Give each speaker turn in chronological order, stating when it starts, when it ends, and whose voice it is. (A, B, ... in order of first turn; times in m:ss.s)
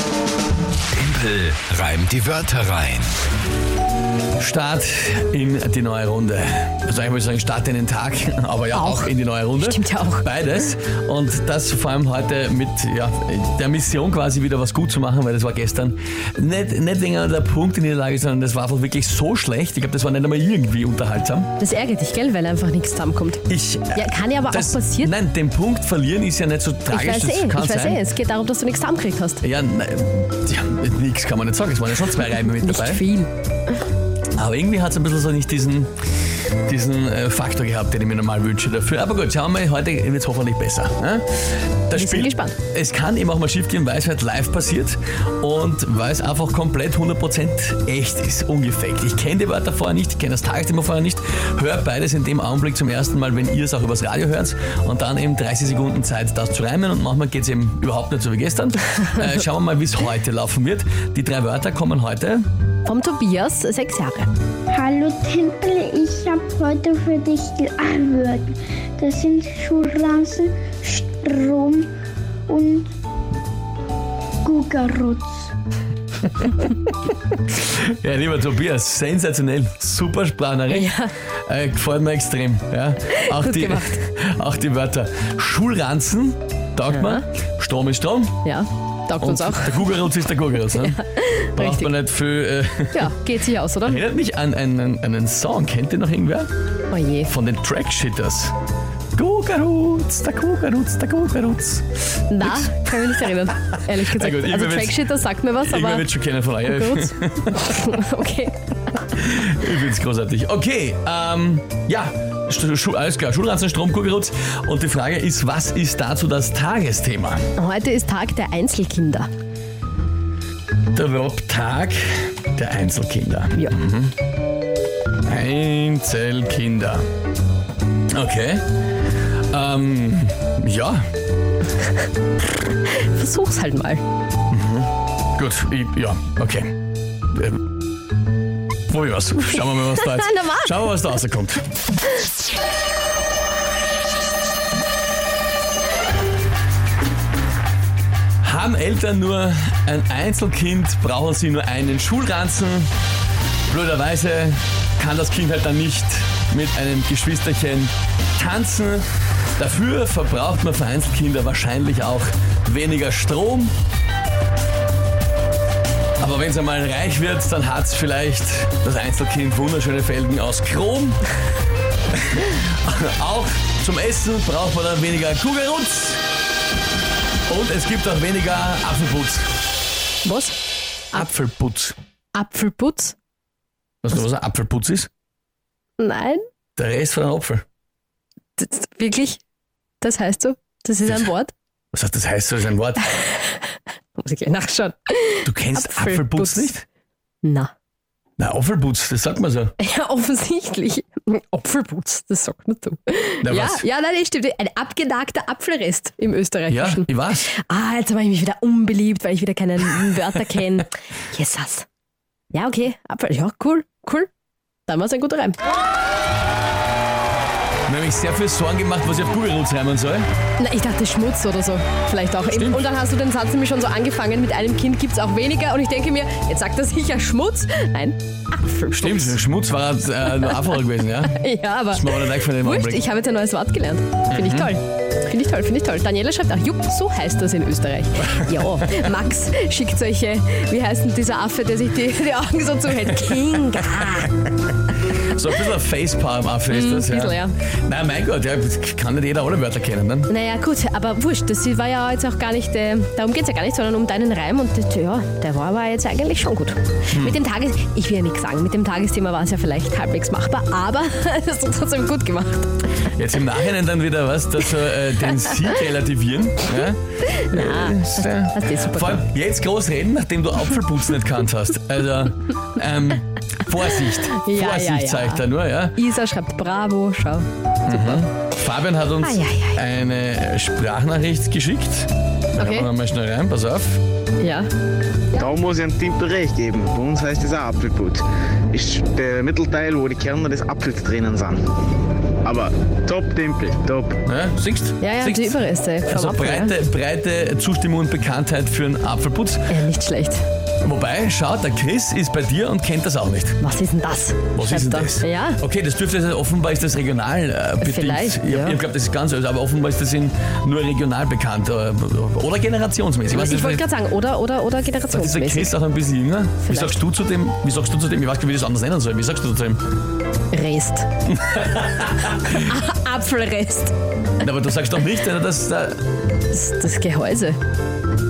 0:00.9-0:03.1 A
0:04.4-0:21.5 B
0:08.7-0:10.3 C
0:21.6-0:25.1 C
0:23.5-0:28.0 B
0:26.9-0:29.4 C
0:29.4-0:33.0 B
0:32.2-0:33.3 C
0:34.4-0:35.9 B
0:36.7-1:02.5 B
0:42.0-0:42.6 C
1:02.9-1:04.3 C
1:04.7-1:11.9 D
1:12.5-1:12.9 D
1:14.4-1:15.5 D
1:17.6-1:20.9 B
1:20.7-1:21.1 C
1:21.5-1:28.4 B
1:23.1-1:24.1 C
1:26.9-1:27.2 C
1:28.4-1:29.8 C
1:29.2-1:31.0 B
1:30.7-1:31.9 C
1:31.6-1:33.2 B
1:32.9-1:34.0 C
1:33.8-1:36.5 B
1:36.9-1:37.3 C
1:37.3-1:38.5 B
1:39.2-1:43.1 B
1:42.3-1:46.1 C
1:44.0-1:48.0 B
1:46.6-1:48.6 C
1:49.1-1:57.4 B
1:57.6-1:59.3 C
2:00.9-2:04.1 B
2:05.2-2:07.0 B
2:08.1-2:08.6 B
2:09.5-2:11.0 B
2:12.8-2:14.0 C
2:14.5-2:16.7 B
2:17.3-2:17.6 B
2:18.9-2:21.6 B
2:19.6-2:20.8 C
2:28.4-2:32.9 B
2:33.7-2:43.7 B
2:46.2-2:51.2 B
2:52.1-2:56.2 B
2:57.5-2:59.5 B
3:00.2-3:00.6 C
3:01.1-3:02.0 B
3:02.3-3:03.2 C
3:04.0-3:05.1 B
3:06.0-3:06.4 C
3:06.8-3:07.6 B
3:08.6-3:09.4 C
3:10.0-3:11.5 C
3:11.9-3:13.0 B
3:13.2-3:16.7 C
3:15.4-3:16.8 B
3:17.4-3:17.7 C
3:18.4-3:19.8 B
3:19.8-3:31.9 C
3:23.4-3:23.8 B
3:26.7-3:27.5 B
3:32.5-3:34.3 C
3:34.9-3:35.6 C
3:37.9-3:40.3 B
3:40.6-3:49.4 C
3:42.5-3:42.9 B
3:49.0-3:53.1 B
3:50.3-3:50.6 C
3:51.2-4:04.4 C
3:54.3-3:54.8 B
3:58.3-3:58.7 B
4:05.1-4:10.3 B
4:06.7-4:07.6 C
4:10.3-4:22.8 C
4:17.1-4:17.4 B
4:23.2-4:36.0 B
4:27.3-4:29.3 C
4:34.3-4:38.2 C
4:37.9-4:44.0 B
4:39.2-4:39.8 C
4:42.6-4:42.9 C
4:44.4-4:44.7 C
4:45.3-4:51.6 E
4:52.4-4:54.2 E
4:54.2-4:59.7 B
4:55.0-4:56.8 C
4:59.7-5:00.4 C
5:00.8-5:03.6 B
5:03.6-5:05.6 C
5:04.5-5:13.9 B
5:07.8-5:08.8 C
5:13.3-5:15.7 C
5:15.1-5:19.8 B
5:16.7-5:17.0 C
5:20.5-5:21.1 C
5:21.3-5:22.7 B
5:22.5-5:23.9 C
5:24.4-5:26.0 B
5:26.5-5:27.6 C